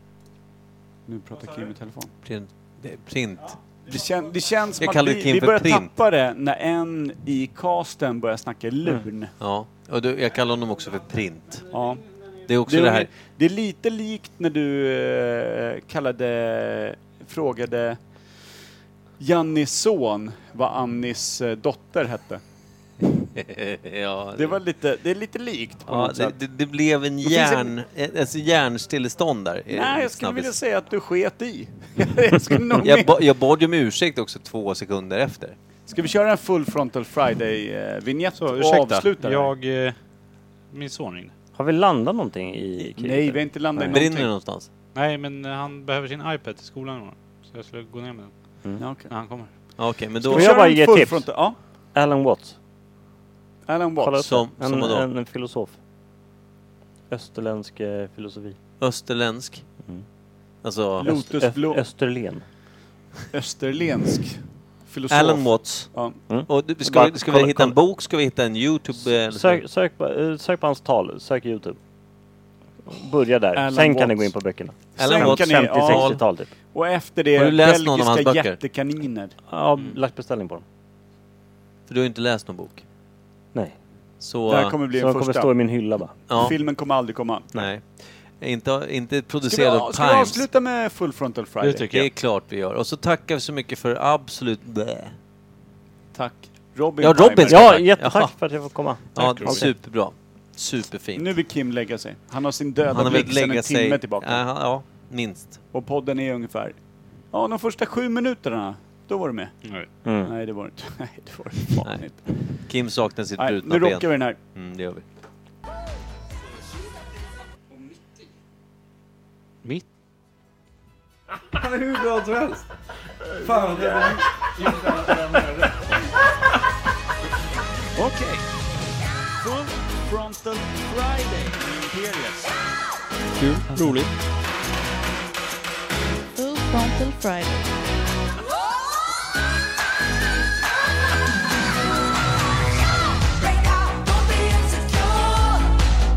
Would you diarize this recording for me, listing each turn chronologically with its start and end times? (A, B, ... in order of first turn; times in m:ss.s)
0:01.1-0:02.1 A
0:02.2-0:03.6 B
0:03.8-0:09.3 A
0:04.8-0:05.9 B
0:09.4-0:11.7 B
0:11.7-0:12.0 A
0:12.4-0:13.1 B
0:12.7-0:18.0 A
0:19.2-0:22.4 A
0:23.2-0:24.6 B
0:24.3-0:26.4 A
0:25.8-0:30.5 B
0:27.2-0:27.7 A
0:29.7-0:33.2 A
0:32.8-0:35.6 B
0:35.9-0:39.5 A
0:38.3-0:40.0 C
0:40.7-0:41.3 C
0:41.5-0:44.0 D
0:42.9-0:44.3 A
0:43.9-0:44.7 B
0:44.9-0:48.3 C
0:48.8-0:49.1 A
0:49.1-0:49.5 C
0:49.8-0:50.5 B
0:50.2-0:51.6 A
0:50.3-0:51.3 D
0:51.9-0:52.6 D
0:53.7-0:54.2 A
0:54.0-0:55.7 D
0:54.2-0:55.1 B
0:57.1-0:58.6 D
0:58.8-0:59.6 B
1:00.6-1:01.1 B
1:01.0-1:01.8 A
1:01.0-1:02.4 D
1:03.3-1:06.2 A
1:05.1-1:05.9 B
1:06.3-1:07.8 D
1:06.5-1:09.6 B
1:09.3-1:11.8 D
1:12.9-1:16.5 D
1:13.6-1:14.3 A
1:15.0-1:16.2 A
1:15.0-1:16.2 B
1:16.7-1:19.3 A
1:17.3-1:18.6 B
1:19.5-1:20.6 D
1:21.9-1:22.8 B
1:24.2-1:24.8 B
1:24.5-1:25.5 A
1:24.9-1:26.2 D
1:26.3-1:26.5 B
1:26.3-1:27.5 A
1:27.5-1:30.4 B
1:29.5-1:32.0 A
1:31.6-1:32.1 C
1:31.9-1:35.1 B
1:36.1-1:37.8 A
1:37.0-1:38.3 B
1:37.5-1:39.7 D
1:39.1-1:41.3 B
1:39.2-1:39.7 C
1:41.2-1:44.4 A
1:42.9-1:45.6 B
1:45.7-1:46.8 A
1:47.3-1:49.6 A
1:50.0-1:50.3 D
1:50.2-1:52.4 A
1:52.6-1:55.0 B
1:53.4-1:54.4 A
2:02.2-2:02.6 C
2:03.4-2:05.0 A
2:03.5-2:04.0 C
2:07.9-2:08.4 A
2:09.4-2:12.5 A
2:13.4-2:14.1 C
2:16.4-2:17.7 E
2:23.2-2:25.8 E